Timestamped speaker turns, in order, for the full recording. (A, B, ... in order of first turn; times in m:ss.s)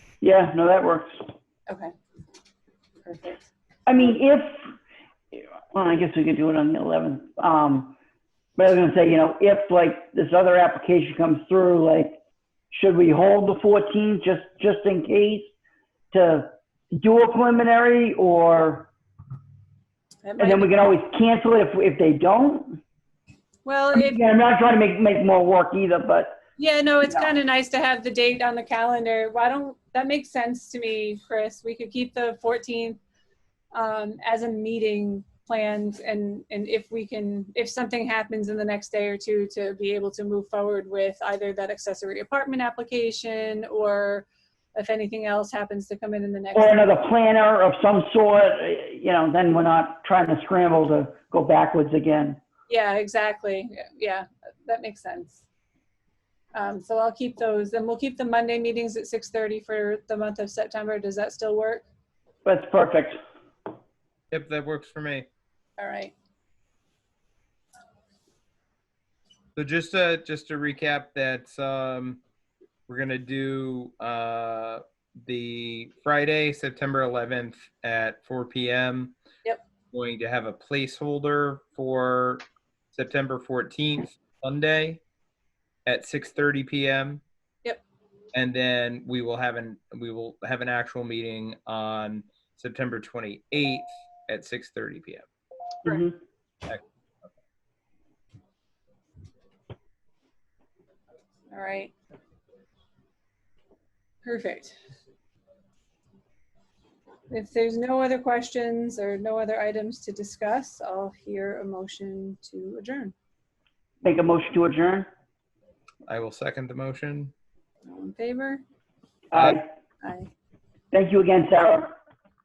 0:00.2-0:01.3 A
0:01.7-0:01.9 B
0:03.0-0:03.3 B
0:03.8-0:04.7 A
0:05.3-0:08.0 A
0:08.6-0:12.2 A
0:12.7-0:15.5 A
0:16.1-0:18.9 A
0:20.2-0:20.7 B
0:20.4-0:22.8 A
0:23.6-0:24.2 B
0:23.9-0:26.4 A
0:26.6-0:33.0 B
0:33.7-0:46.9 B
0:46.5-0:52.4 A
0:52.7-0:55.4 B
0:56.5-1:01.8 B
1:02.4-1:03.2 A
1:04.3-1:05.2 C
1:05.8-1:06.1 B
1:09.5-1:12.2 C
1:12.9-1:19.1 C
1:19.9-1:25.0 C
1:25.8-1:27.2 C
1:28.3-1:35.2 C
1:35.8-1:36.1 A
1:41.5-1:41.9 B
1:44.2-1:44.8 B
1:47.3-1:53.1 B
1:54.0-1:55.1 A
1:56.1-1:57.3 C
1:57.8-1:58.6 B
1:59.3-1:59.7 A
2:00.0-2:00.3 B
2:00.9-2:01.9 A